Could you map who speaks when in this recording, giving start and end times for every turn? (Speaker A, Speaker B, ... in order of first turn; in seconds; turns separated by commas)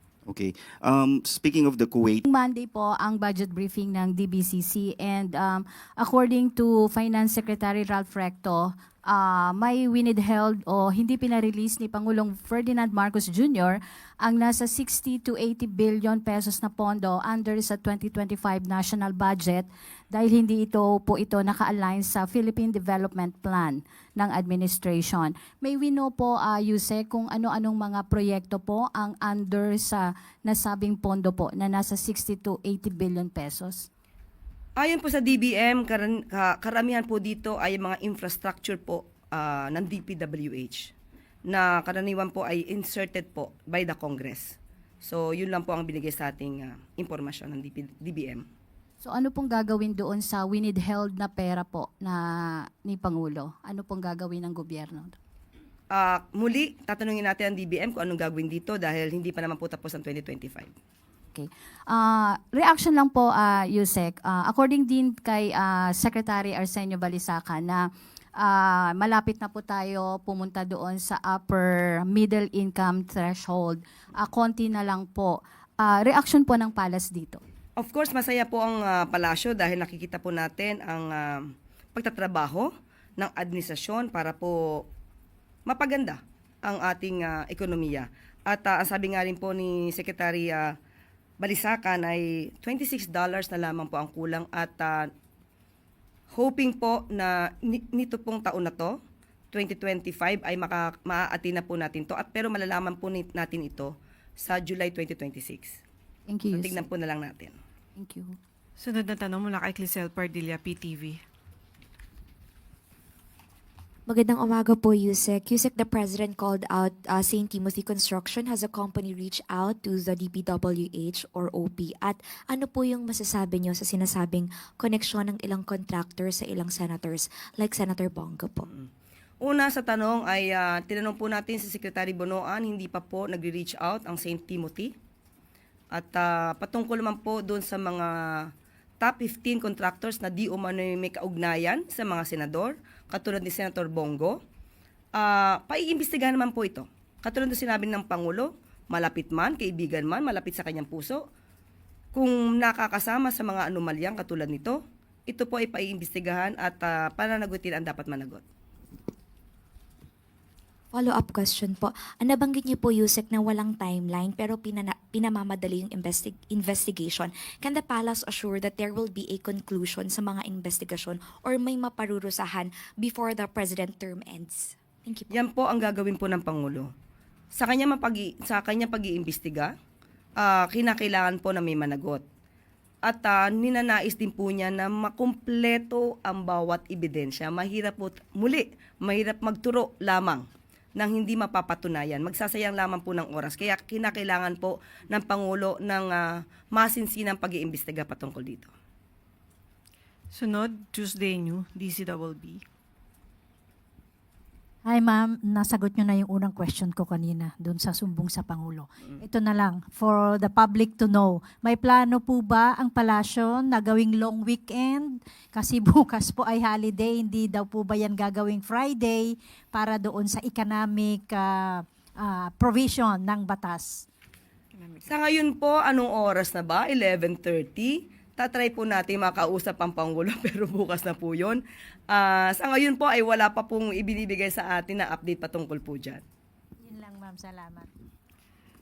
Speaker A: 0.3-2.2, Speaker B: 2.3-33.9, Speaker C: 34.8-40.9, Speaker C: 41.5-48.5, Speaker B: 49.0-55.1, Speaker C: 55.9-60.7, Speaker B: 61.4-67.9, Speaker B: 68.4-77.4, Speaker C: 77.8-84.8, Speaker C: 85.7-90.8, Speaker C: 91.4-95.1, Speaker C: 96.3-99.0, Speaker C: 99.5-105.8, Speaker B: 106.3-106.8, Speaker C: 106.5-107.6, Speaker B: 108.0-108.4, Speaker D: 108.8-111.2, Speaker E: 114.1-128.7, Speaker C: 129.4-134.9, Speaker C: 135.9-144.4, Speaker C: 145.2-151.2, Speaker C: 152.1-158.4, Speaker E: 160.9-175.3, Speaker C: 175.3-176.9, Speaker C: 177.5-179.8, Speaker C: 180.4-182.2, Speaker C: 183.1-190.5, Speaker C: 191.0-198.7, Speaker D: 200.3-202.7, Speaker F: 204.9-224.0, Speaker D: 224.7-225.2, Speaker C: 225.1-236.2, Speaker F: 236.8-237.9